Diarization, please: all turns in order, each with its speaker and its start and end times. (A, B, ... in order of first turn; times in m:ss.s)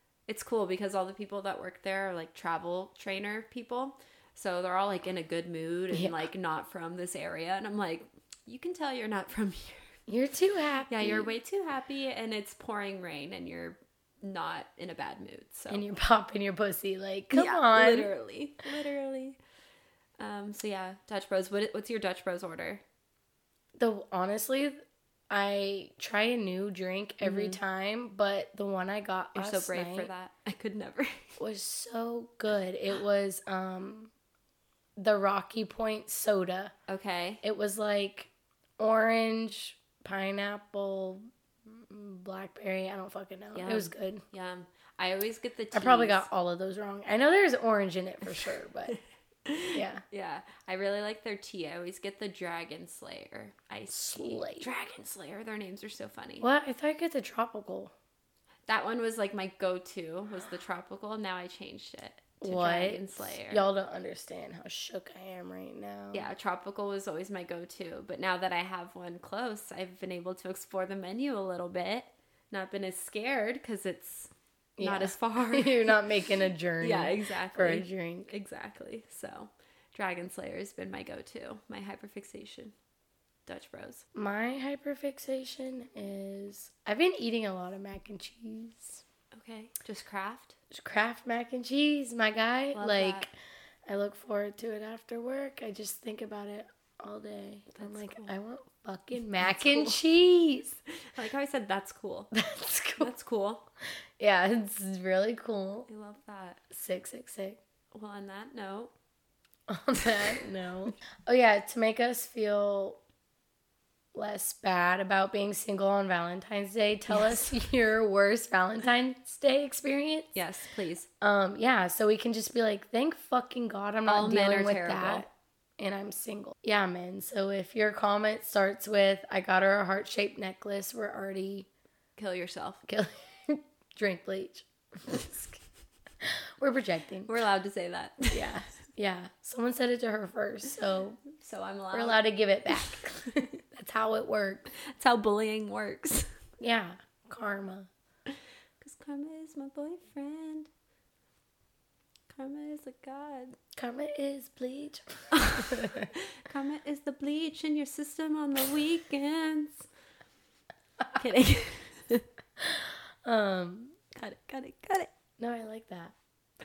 0:00.3-0:09.9 A
0:05.9-0:06.3 B
0:10.1-0:11.3 B
0:10.9-0:15.8 A
0:15.7-0:18.1 B
0:17.3-0:19.4 A
0:20.2-0:22.8 A
0:23.8-0:24.8 B
0:25.3-0:30.1 B
0:27.2-0:27.6 A
0:29.3-0:31.4 A
0:31.4-0:34.1 B
0:35.0-0:36.7 B
0:36.9-0:37.4 A
0:37.4-0:44.2 B
0:43.5-0:46.2 A
0:45.7-0:49.0 B
0:49.4-0:56.5 A
0:49.7-0:50.0 B
0:53.9-0:54.7 B
0:56.4-0:57.9 B
0:58.7-1:03.6 A
1:02.4-1:06.3 B
1:06.1-1:16.1 A
1:14.8-1:18.3 B
1:16.8-1:22.7 A
1:23.4-1:24.0 A
1:24.1-1:29.0 B
1:29.3-1:30.6 A
1:30.7-1:33.3 B
1:32.7-1:33.3 A
1:33.9-1:40.7 B
1:37.8-1:38.3 A
1:39.4-1:40.0 A
1:41.1-1:42.3 A
1:42.3-1:43.1 B
1:43.0-1:43.6 A
1:44.2-1:45.9 B
1:45.9-1:46.6 A
1:46.7-1:47.6 B
1:47.9-1:48.9 A
1:49.7-1:53.0 B
1:54.1-2:00.3 B
1:57.1-1:57.5 A
2:00.3-2:01.1 A
2:01.2-2:11.7 B
2:04.1-2:05.2 A
2:12.2-2:12.8 A
2:12.9-2:15.6 B
2:16.2-2:17.3 B
2:17.3-2:18.5 A
2:18.3-2:21.2 B
2:21.3-2:22.2 A
2:21.9-2:24.7 B
2:24.8-2:26.3 A
2:26.6-2:27.9 B
2:28.8-2:30.7 A
2:32.3-2:33.6 A
2:33.8-2:36.1 B
2:35.3-2:39.9 A
2:41.2-2:42.2 A
2:42.6-2:44.0 B
2:44.1-2:45.1 A
2:45.4-2:46.1 B